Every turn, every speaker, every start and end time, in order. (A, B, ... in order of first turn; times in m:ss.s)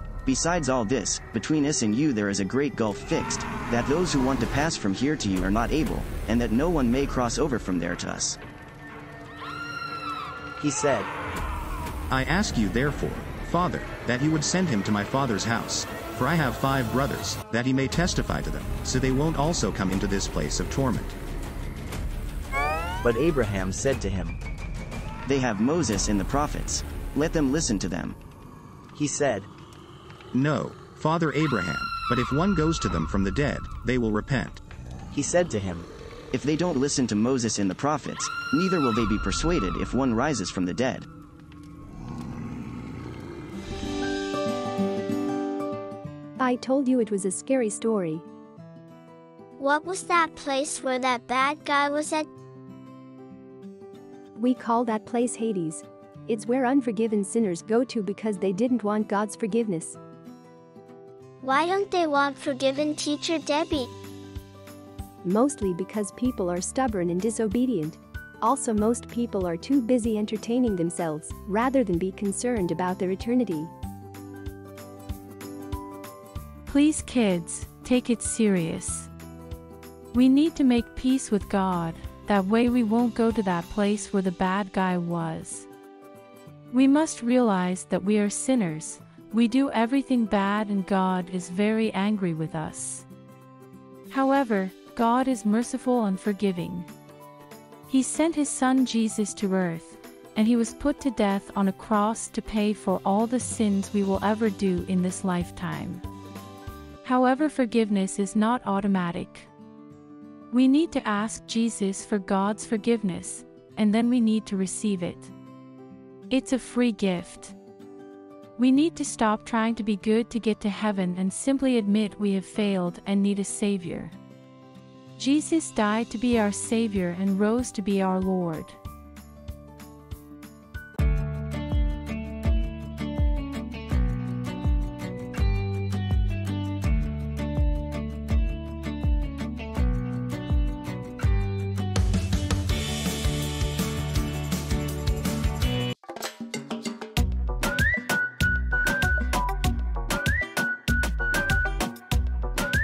0:00.3-0:08.4 A
0:10.6-0:11.1 B
0:12.1-0:21.2 C
0:23.0-0:24.4 B
0:25.3-0:28.2 A
0:29.0-0:29.5 B
0:30.3-0:34.6 C
0:35.1-0:35.9 B
0:36.3-0:41.1 A
0:46.4-0:48.2 D
0:49.6-0:52.3 E
0:54.4-1:00.0 D
1:01.4-1:03.9 E
1:05.2-1:13.7 D
1:16.7-1:19.1 F
1:20.1-1:25.7 F
1:26.7-1:33.1 F
1:34.1-1:36.9 F
1:37.9-1:46.0 F
1:47.0-1:49.5 F
1:50.5-1:55.3 F
1:56.3-1:57.6 F
1:58.6-2:04.2 F
2:05.2-2:08.8 F